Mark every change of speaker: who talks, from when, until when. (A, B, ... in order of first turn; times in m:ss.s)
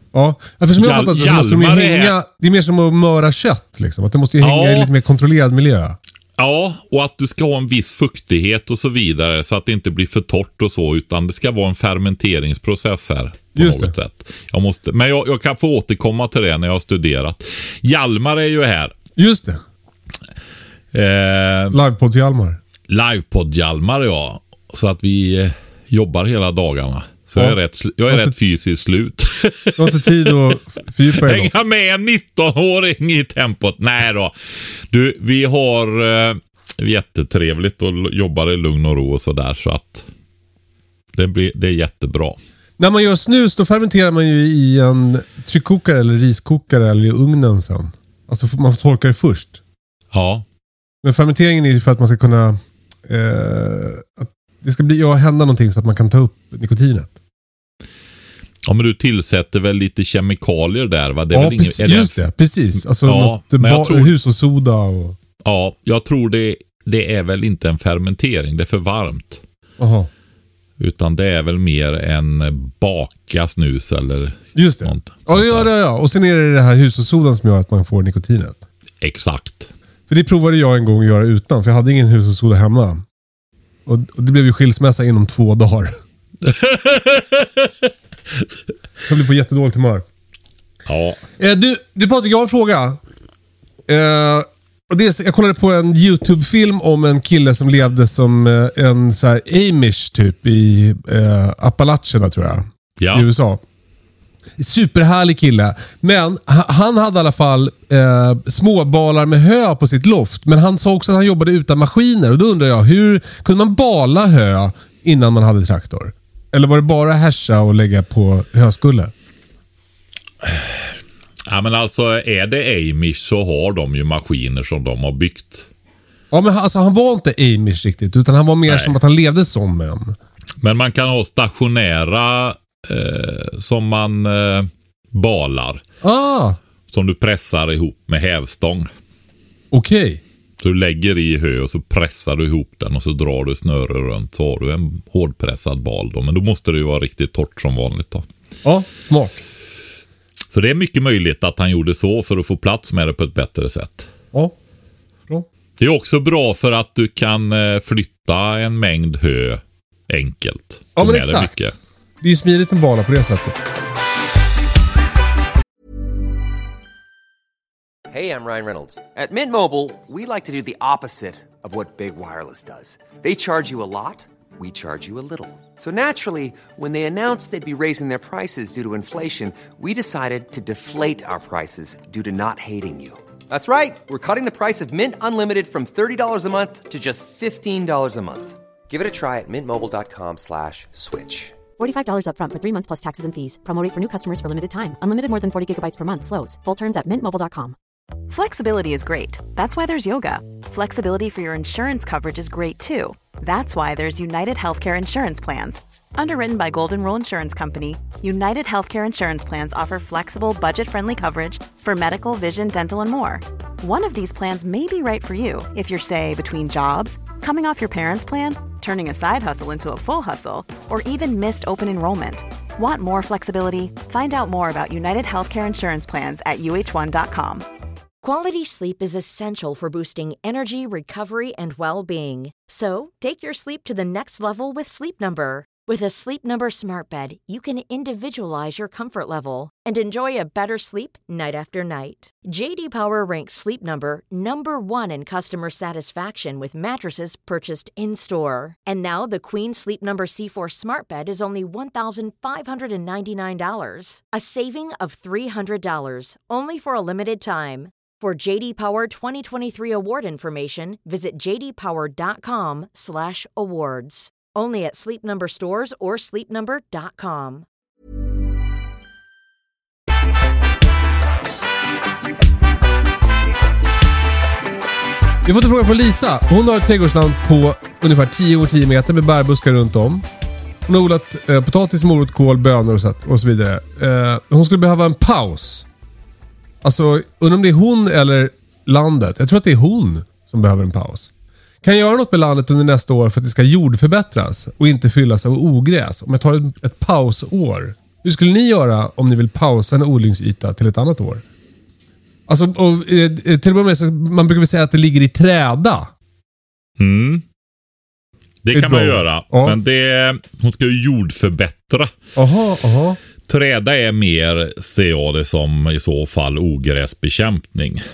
0:00.1-0:06.0 A
0:00.8-0:02.1 B
0:04.4-0:04.9 B
0:06.4-0:18.9 B
0:13.6-0:13.9 A
0:19.2-0:19.6 A
0:20.9-0:21.8 B
0:21.7-0:22.6 A
0:22.9-0:40.0 B
0:28.1-0:28.3 A
0:29.8-0:31.5 A
0:41.2-0:42.4 B
0:42.8-0:49.6 A
0:50.1-0:50.4 B
0:51.0-0:57.1 A
0:58.6-1:02.2 B
1:01.3-1:05.2 A
1:03.0-1:04.1 B
1:05.4-1:09.4 B
1:09.8-1:10.1 A
1:10.8-1:15.7 B
1:14.5-1:18.6 A
1:19.0-1:19.7 B
1:20.1-1:23.0 A
1:23.8-1:26.0 A
1:26.4-1:27.7 B
1:29.1-1:30.0 A
1:30.8-1:31.2 B
1:31.4-1:33.0 A
1:33.9-1:43.6 A
1:43.0-1:43.3 B
1:44.6-1:59.1 A
2:01.5-2:05.7 B
2:06.3-2:10.2 A
2:08.7-2:08.9 B
2:10.6-2:15.8 B
2:16.0-2:16.6 A
2:16.9-2:18.9 B
2:19.7-2:20.2 A
2:20.6-2:28.2 B
2:28.6-2:29.4 A
2:30.5-2:34.1 B
2:35.8-2:41.7 B
2:41.0-2:41.7 A
2:42.2-2:43.6 A
2:48.1-3:11.6 C
3:11.8-3:17.8 D
3:18.3-3:47.6 E
3:48.2-4:27.6 F
4:35.4-4:40.2 A
4:40.8-4:45.8 A
4:46.8-4:51.3 A
4:51.8-5:01.4 A
5:02.5-5:06.1 A
5:07.0-5:07.4 B
5:08.6-5:12.1 B
5:08.7-5:09.8 A
5:12.4-5:13.2 A
5:13.4-5:18.0 B